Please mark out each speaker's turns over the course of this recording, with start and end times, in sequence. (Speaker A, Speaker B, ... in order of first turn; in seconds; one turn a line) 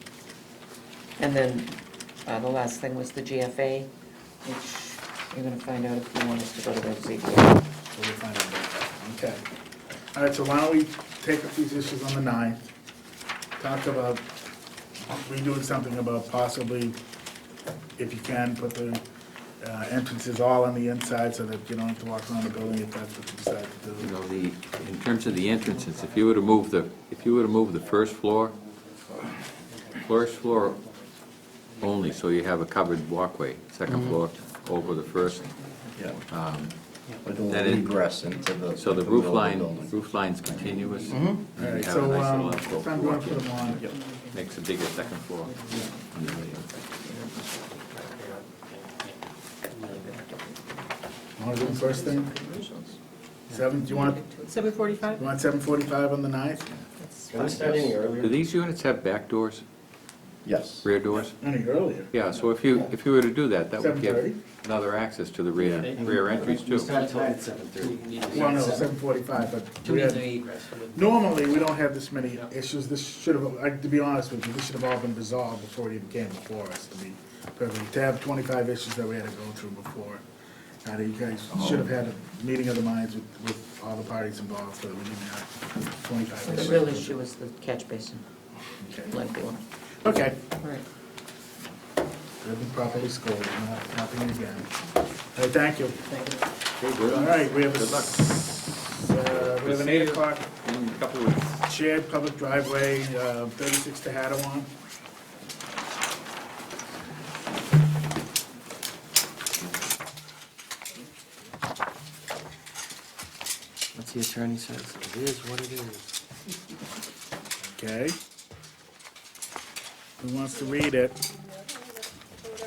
Speaker A: 1.2-3.9
Speaker A: 4.4-7.6
Speaker B: 7.9-9.4
Speaker B: 10.1-12.7
Speaker B: 13.6-14.2
Speaker B: 15.1-16.9
Speaker B: 18.0-19.0
Speaker B: 19.6-24.1
Speaker C: 24.0-28.5
Speaker D: 25.6-26.3
Speaker D: 29.7-31.1
Speaker C: 30.0-30.8
Speaker D: 31.7-32.2
Speaker C: 31.8-35.5
Speaker E: 33.9-34.2
Speaker A: 34.3-36.1
Speaker E: 36.0-36.2
Speaker C: 36.3-36.7
Speaker E: 37.2-40.0
Speaker C: 37.4-38.1
Speaker C: 38.7-46.6
Speaker A: 40.5-41.1
Speaker E: 41.1-41.4
Speaker B: 41.5-43.8
Speaker A: 43.9-47.9
Speaker D: 47.9-49.2
Speaker A: 49.7-50.8
Speaker D: 49.7-50.1
Speaker B: 51.4-52.3
Speaker A: 51.6-53.0
Speaker B: 53.5-54.2
Speaker A: 53.7-55.3
Speaker B: 55.2-56.6
Speaker A: 56.8-57.6
Speaker F: 57.3-58.4
Speaker C: 57.5-59.6
Speaker E: 60.4-60.9
Speaker C: 60.8-61.3
Speaker B: 61.3-62.1
Speaker C: 62.1-66.9
Speaker B: 63.8-64.4
Speaker D: 65.6-68.9
Speaker F: 65.9-68.9
Speaker B: 68.3-70.3
Speaker D: 69.8-71.5
Speaker B: 70.9-80.2
Speaker B: 80.8-87.1
Speaker E: 81.5-81.8
Speaker A: 86.4-88.2
Speaker B: 88.8-89.1
Speaker A: 89.1-89.6
Speaker B: 90.0-90.4
Speaker B: 92.4-94.7
Speaker B: 95.3-96.0
Speaker D: 96.1-96.4
Speaker C: 96.8-101.7
Speaker B: 97.1-98.1
Speaker B: 98.9-100.5
Speaker B: 101.7-104.7
Speaker F: 113.9-116.1
Speaker B: 117.7-118.2
Speaker B: 120.2-121.2